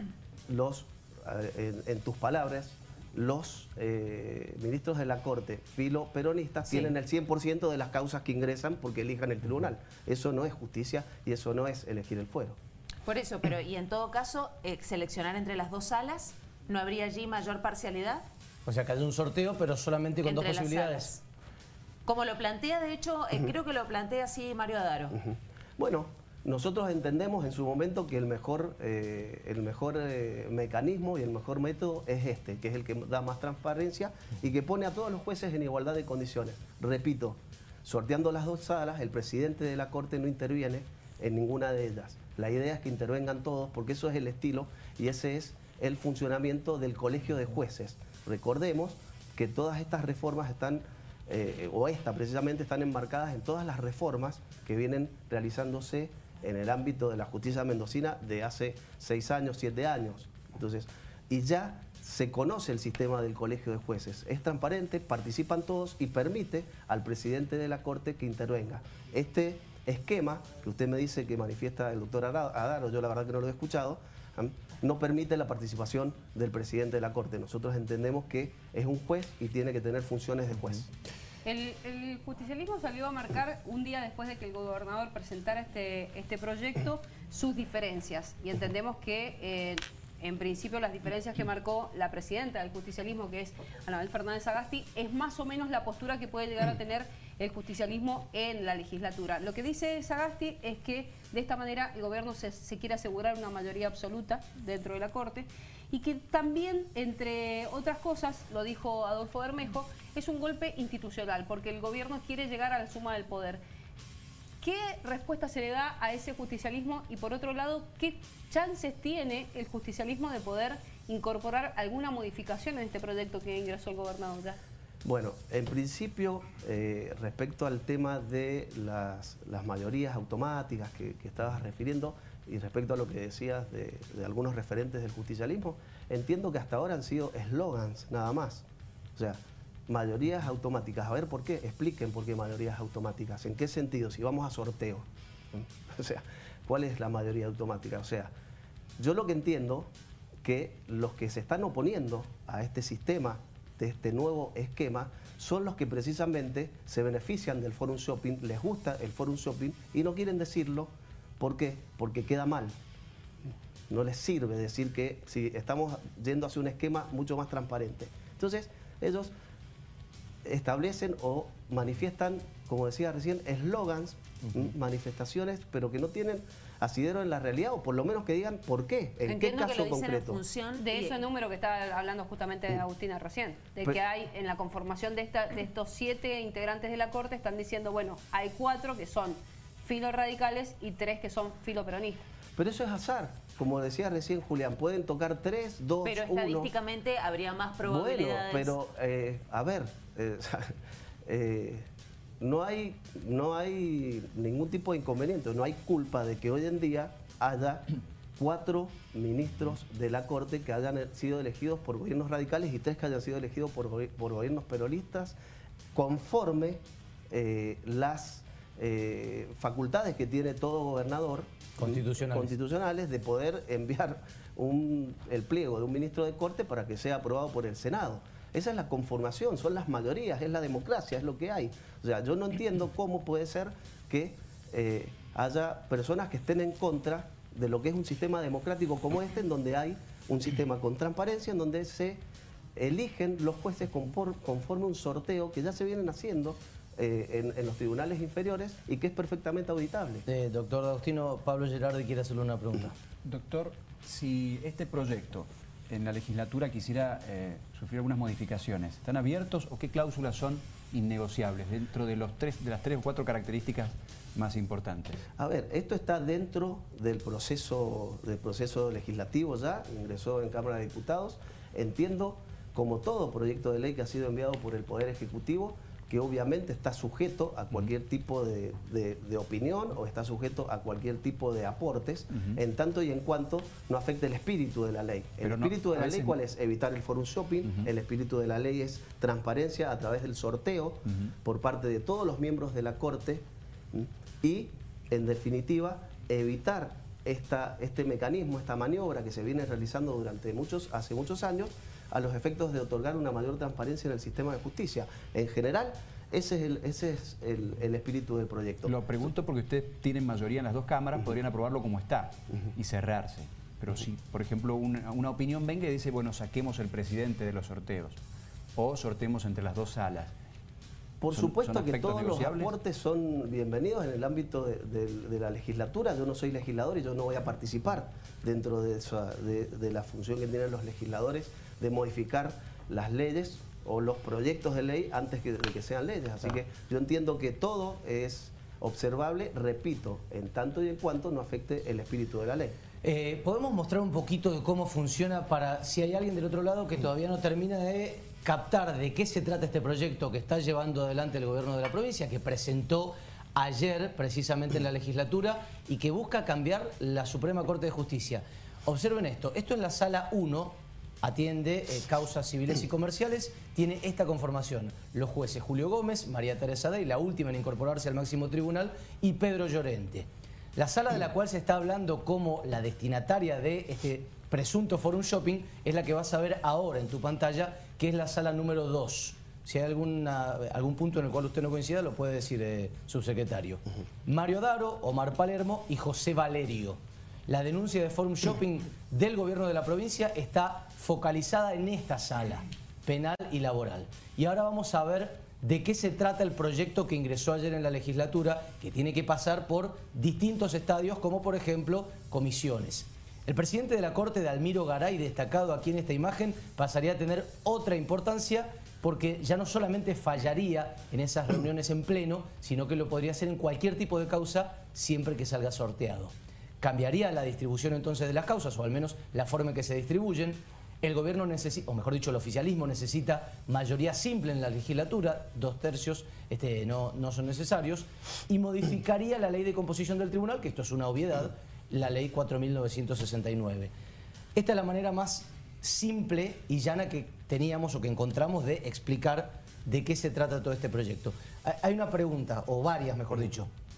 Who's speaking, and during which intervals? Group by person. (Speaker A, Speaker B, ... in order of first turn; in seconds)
Speaker A: 0.5-12.6, 25.1-80.9, 125.0-148.3, 149.0-149.9, 150.4-162.8, 163.9-169.3, 170.4-180.4, 192.6-196.7, 197.8-201.9, 202.4-215.3, 215.9-242.2, 242.8-250.2, 265.4-308.9, 321.2-342.8
Speaker B: 13.0-18.2, 20.2-21.2, 22.0-25.2, 179.2-181.2, 196.0-198.7
Speaker C: 18.6-21.1, 221.8-222.5, 250.3-252.9, 343.0-433.9, 434.5-443.7
Speaker D: 81.4-113.6, 114.6-124.6, 180.8-192.2
Speaker E: 253.2-265.2, 285.4-286.4, 308.8-318.2, 318.8-320.3, 321.3-322.7